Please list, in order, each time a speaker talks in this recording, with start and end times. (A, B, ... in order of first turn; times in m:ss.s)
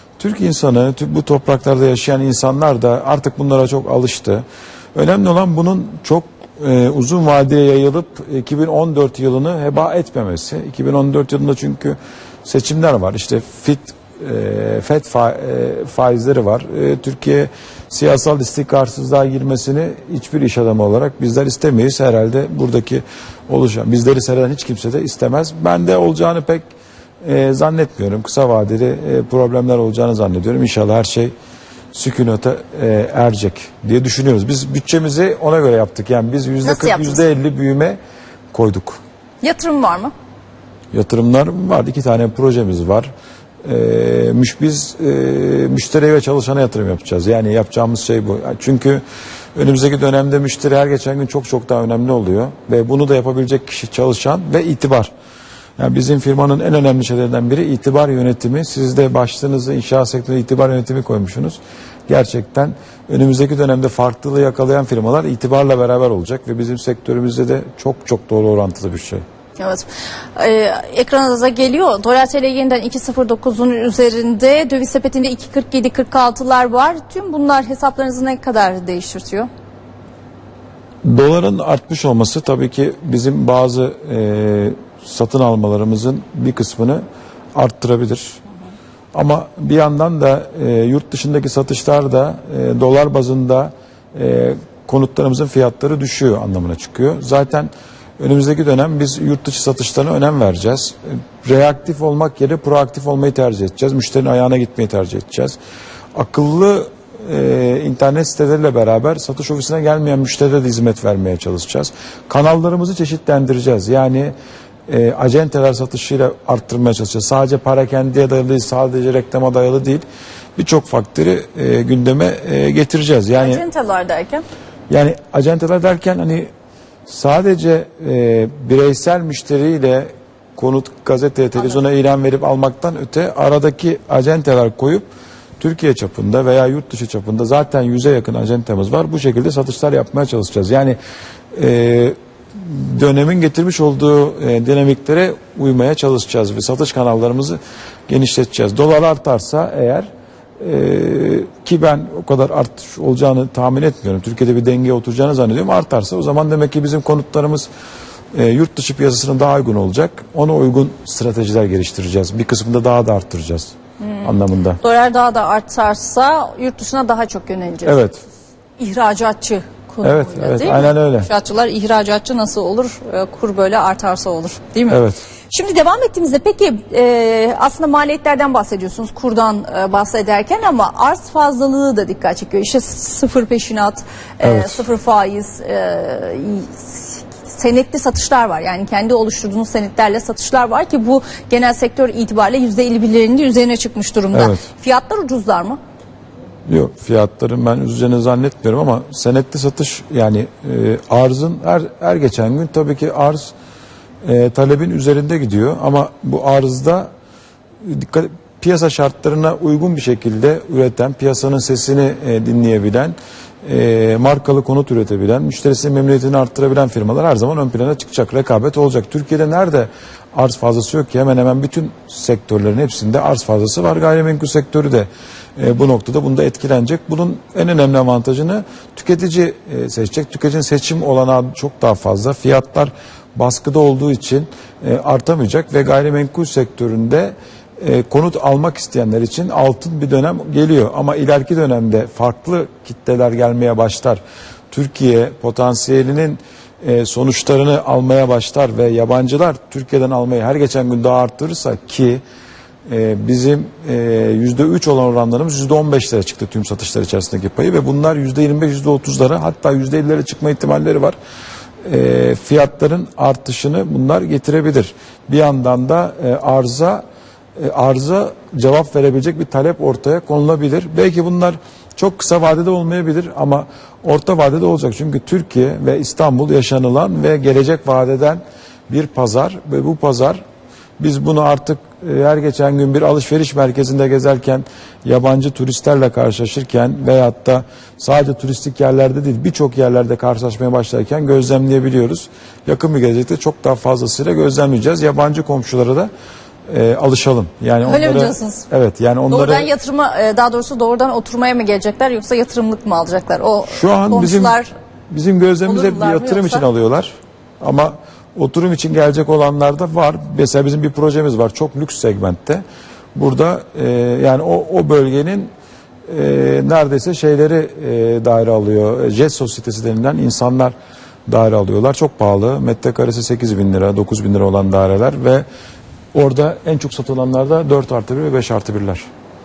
0:00.2-0:26.7 A
0:27.2-0:31.3 A
0:31.9-0:38.0 A
0:36.6-0:37.2 B
0:38.5-0:39.0 A
0:39.4-0:40.1 B
0:40.9-0:43.1 A
0:43.6-0:49.0 A
0:49.6-0:55.1 A
0:55.8-1:09.2 A
1:09.6-1:19.5 B
1:21.0-1:27.0 A
1:27.6-1:28.4 A
1:29.1-1:45.6 A
1:46.2-1:54.3 A
1:54.9-2:00.0 A
2:00.6-2:03.6 A
2:03.4-2:04.4 B
2:04.9-2:06.5 A
2:07.1-2:15.1 A
2:15.6-2:21.0 A
2:21.6-2:37.7 A
2:38.3-2:44.8 A
2:44.0-2:48.0 B
2:47.8-2:48.2 A
2:48.8-3:15.8 B
2:50.0-2:51.3 A
2:54.9-2:55.2 A
3:04.4-3:04.8 A
3:14.3-3:14.6 A
3:16.7-3:23.5 A
3:24.2-3:27.1 A
3:27.8-4:12.2 A
4:12.9-4:21.2 A
4:21.8-4:27.0 A
4:27.6-4:40.4 A
4:41.0-4:56.1 A
4:56.7-4:59.7 A
4:57.8-4:58.7 B
4:59.3-5:04.7 B
5:03.7-5:12.6 A
5:05.7-5:06.7 B
5:13.2-5:15.5 A
5:16.1-5:20.8 A
5:21.3-5:25.4 A
5:26.1-5:29.1 A